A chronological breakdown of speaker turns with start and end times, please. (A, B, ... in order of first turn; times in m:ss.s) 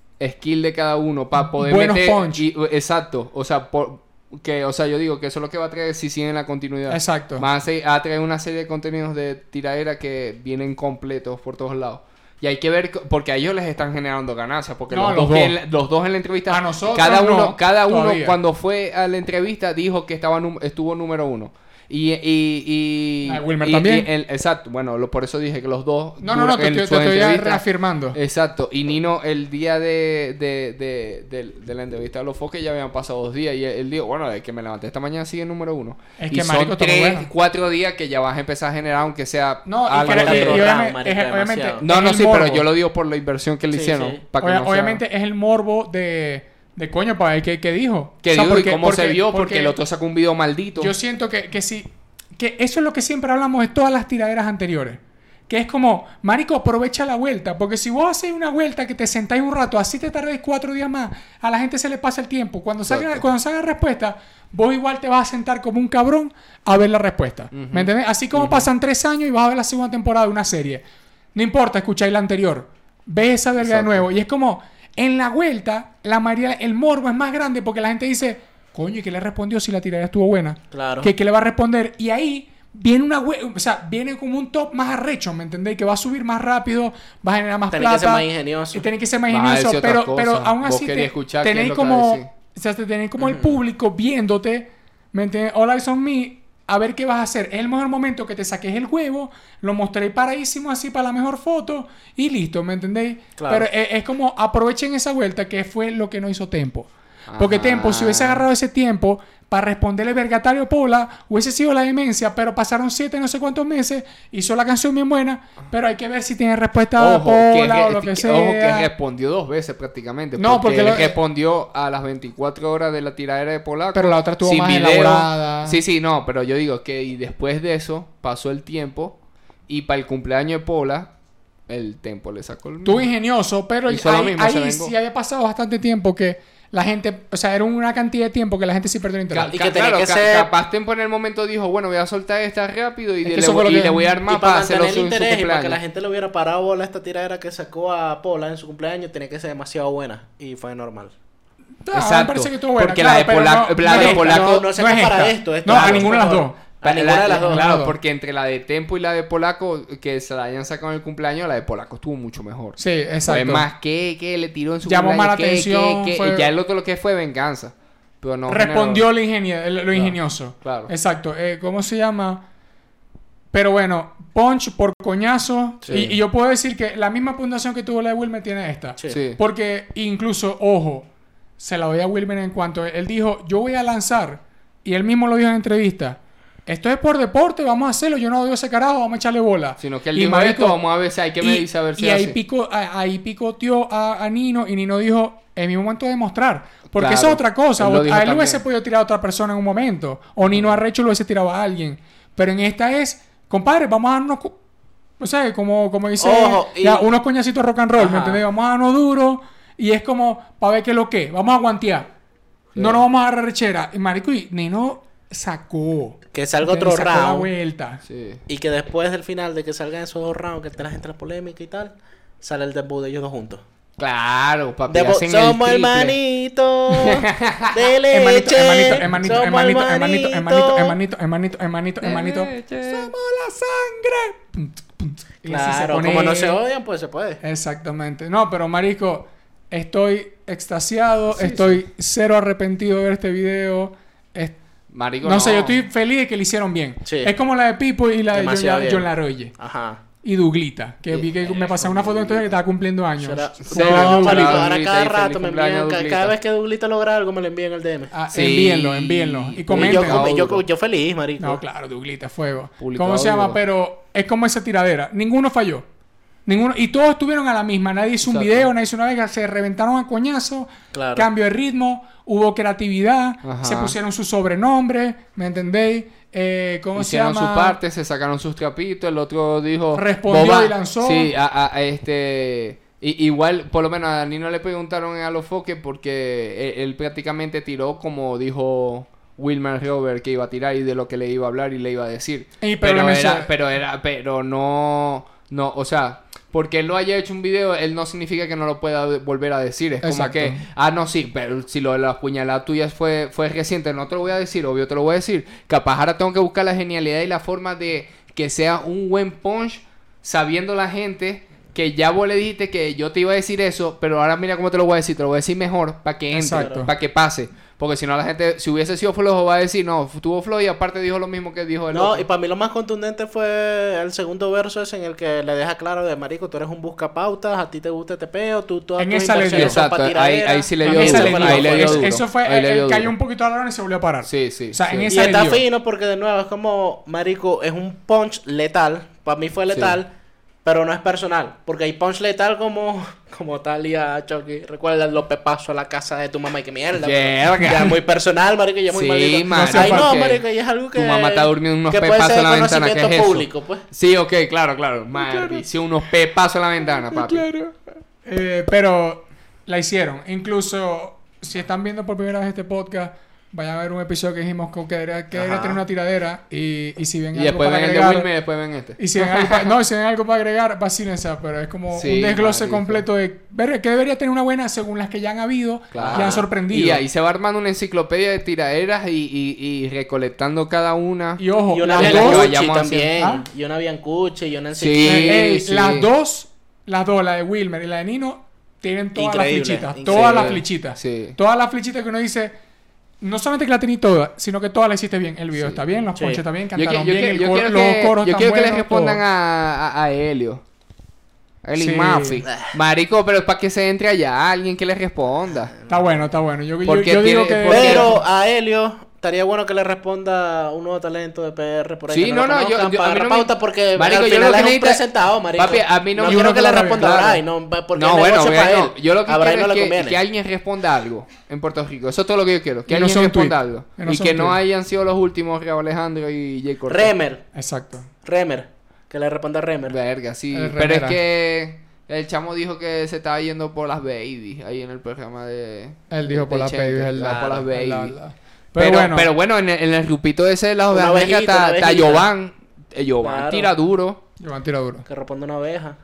0:00.2-0:40.7 A
0:01.4-0:02.5 B
0:06.9-0:07.5 B
0:14.9-0:15.6 B
0:16.5-0:18.4 B
0:23.2-0:24.1 B
0:26.2-0:28.2 B
0:36.2-0:37.3 B
0:39.6-0:42.7 B
0:40.0-0:41.8 C
0:41.8-0:45.0 A
0:43.7-0:44.2 C
0:44.4-0:49.8 B
0:48.2-0:51.0 A
0:50.8-1:10.8 B
1:02.9-1:03.3 A
1:07.5-1:08.7 A
1:11.4-1:58.9 B
1:13.6-1:14.1 A
1:20.7-1:21.1 C
1:27.7-1:28.9 C
1:29.3-1:32.3 A
1:33.2-1:33.6 C
1:43.4-1:43.7 C
1:47.3-1:48.5 A
1:57.0-2:11.1 A
2:00.4-2:01.2 B
2:03.9-2:05.8 B
2:11.7-2:13.1 A
2:12.8-2:19.5 B
2:13.9-2:15.0 A
2:19.3-2:25.8 A
2:19.5-2:20.5 C
2:23.2-2:24.1 B
2:24.3-2:31.2 C
2:31.8-2:36.6 B
2:31.9-2:34.7 A
2:33.8-2:37.6 C
2:35.7-2:36.2 A
2:36.8-2:49.1 A
2:37.3-2:38.0 B
2:42.8-2:43.7 B
2:44.8-2:46.5 B
2:48.5-2:52.4 B
2:49.9-2:50.9 A
2:53.5-3:01.1 B
2:55.8-2:56.2 C
2:59.1-2:59.4 A
3:01.6-3:10.8 B
3:09.8-3:12.4 A
3:11.4-3:24.6 B
3:16.9-3:18.6 A
3:20.4-3:20.8 A
3:25.2-3:32.1 B
3:26.2-3:27.0 C
3:28.0-3:28.4 C
3:32.8-3:33.0 A
3:32.8-3:38.0 B
3:36.3-3:37.5 C
3:38.0-3:38.4 A
3:38.5-3:43.6 C
3:44.0-3:46.2 A
3:44.9-3:51.0 C
3:46.9-3:47.9 A
3:48.1-3:56.6 B
3:52.0-3:53.1 A
3:55.4-3:57.4 C
3:57.4-4:04.6 B
4:01.3-4:01.8 A
4:04.9-4:05.8 A
4:05.2-4:09.5 B
4:07.0-4:07.3 C
4:08.3-4:10.0 C
4:10.2-4:14.7 B
4:11.1-4:12.5 A
4:13.2-4:18.1 C
4:13.6-4:16.4 A
4:18.1-4:20.3 B
4:18.3-4:20.6 A
4:19.7-4:21.6 C
4:21.4-4:25.9 B
4:22.8-4:23.6 A
4:26.5-4:37.8 B
4:28.2-4:28.7 A
4:30.9-4:31.3 C
4:33.4-4:34.0 A
4:37.0-5:22.3 A
4:39.9-4:41.3 B
4:52.6-4:53.6 B
5:00.0-5:00.7 B
5:16.3-5:16.9 B
5:16.5-5:16.8 C
5:21.9-5:32.1 C
5:29.0-5:29.8 B
5:29.4-5:33.2 A
5:30.8-5:35.6 B
5:34.2-5:35.1 A
5:35.1-5:40.1 C
5:39.7-5:40.0 A
5:40.6-5:53.8 C
5:47.0-5:48.0 A
5:48.9-5:57.5 A
5:49.5-5:50.2 B
5:55.2-5:55.7 B
5:57.1-6:08.3 B
6:05.4-6:05.8 A
6:07.3-6:09.7 A
6:09.0-6:17.0 B
6:11.9-6:13.1 A
6:15.9-6:23.2 A
6:16.0-6:16.4 C
6:21.4-6:22.5 B
6:21.7-6:25.4 C
6:23.2-6:23.5 B
6:24.7-6:26.1 A
6:25.0-6:32.6 B
6:29.2-6:30.6 C
6:30.1-6:31.4 A
6:33.2-6:39.2 B
6:35.5-6:35.9 A
6:36.2-6:36.4 C
6:36.8-6:40.6 A
6:41.6-6:45.8 A
6:41.8-6:42.4 B
6:45.9-6:48.2 B
6:46.8-6:48.2 A
6:47.7-7:00.2 C
6:52.1-7:07.1 A
6:56.3-6:57.1 B
7:02.9-7:04.6 B
7:06.9-7:07.4 C
7:07.5-7:08.1 B
7:08.2-7:10.0 C
7:09.9-7:18.2 A
7:10.5-7:11.2 B
7:16.1-7:19.3 B
7:17.2-7:17.6 C
7:18.8-7:24.2 A
7:20.9-7:22.3 C
7:23.2-7:23.7 C
7:24.4-7:25.1 B
7:25.1-7:26.0 C